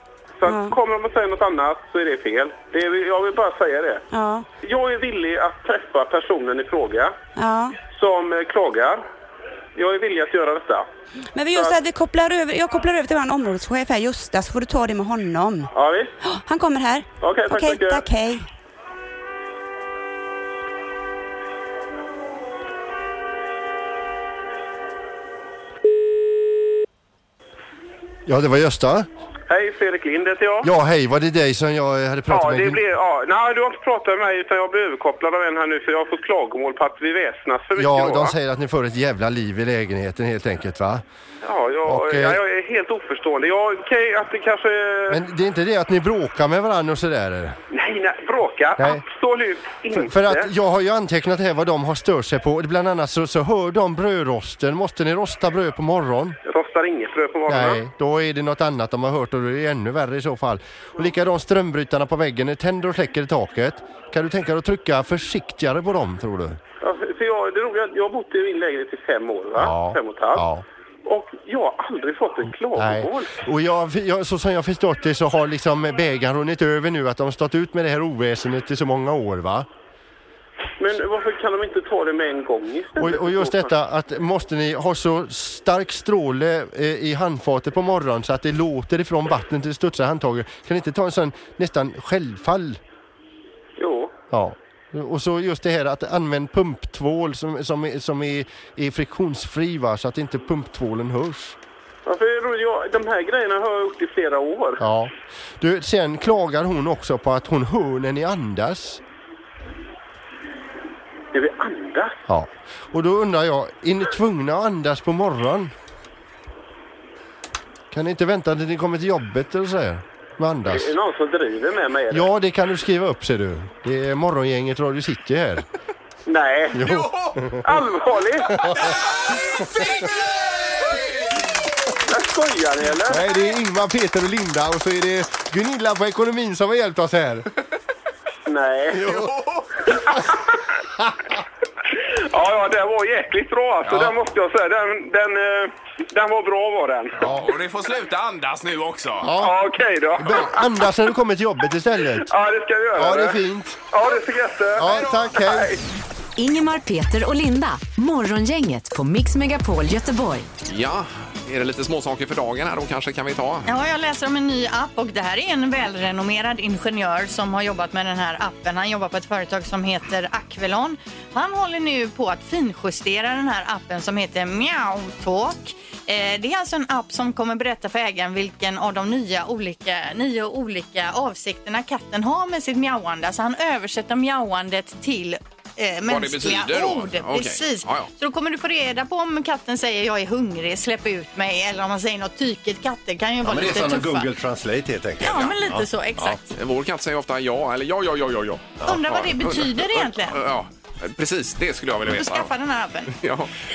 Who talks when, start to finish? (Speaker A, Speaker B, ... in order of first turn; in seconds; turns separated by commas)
Speaker A: 0.4-4.0, Speaker B: 0.5-0.8, Speaker B: 4.1-4.5, Speaker A: 4.6-7.1, Speaker B: 7.3-7.8, Speaker A: 7.8-9.0, Speaker A: 9.8-10.9, Speaker B: 11.3-15.7, Speaker A: 11.5-11.8, Speaker A: 15.7-16.1, Speaker B: 16.2-18.5, Speaker A: 17.2-18.0, Speaker C: 28.3-29.1, Speaker A: 29.5-30.7, Speaker C: 30.6-32.8, Speaker A: 32.3-38.3, Speaker C: 37.8-41.0, Speaker A: 41.4-45.2, Speaker C: 41.9-42.4, Speaker C: 45.1-47.6, Speaker A: 47.7-50.5, Speaker C: 48.8-49.0, Speaker C: 49.9-56.4, Speaker A: 56.4-57.8, Speaker C: 57.5-66.6, Speaker A: 66.8-70.5, Speaker C: 69.5-70.6, Speaker A: 71.0-73.3, Speaker C: 72.7-79.7, Speaker A: 80.8-83.7, Speaker C: 83.0-92.8, Speaker A: 93.8-94.1, Speaker C: 94.3-101.5, Speaker A: 102.0-104.8, Speaker C: 104.8-109.0, Speaker A: 111.3-112.2, Speaker C: 112.3-115.7, Speaker C: 117.9-120.9, Speaker A: 120.7-122.3, Speaker C: 122.1-125.6, Speaker A: 126.2-126.9, Speaker C: 126.7-127.7, Speaker D: 126.8-127.4, Speaker A: 127.6-128.6, Speaker D: 128.6-131.3, Speaker A: 132.0-133.4, Speaker C: 133.1-137.5, Speaker A: 138.5-139.1, Speaker C: 138.9-139.3, Speaker D: 139.1-139.7, Speaker A: 139.9-140.3, Speaker A: 142.1-147.2, Speaker C: 147.2-147.5, Speaker D: 147.2-149.3, Speaker C: 149.2-149.5, Speaker A: 149.2-150.9, Speaker C: 150.2-152.3, Speaker A: 152.2-155.8, Speaker C: 153.0-153.8, Speaker C: 154.8-155.7, Speaker D: 154.9-155.3, Speaker E: 156.4-160.5, Speaker D: 160.7-163.7, Speaker F: 163.7-194.3, Speaker D: 186.0-188.1, Speaker G: 193.4-196.4, Speaker F: 195.2-196.5, Speaker D: 196.5-202.5, Speaker G: 198.8-199.1, Speaker F: 198.8-200.4, Speaker F: 202.1-203.1, Speaker D: 203.1-203.5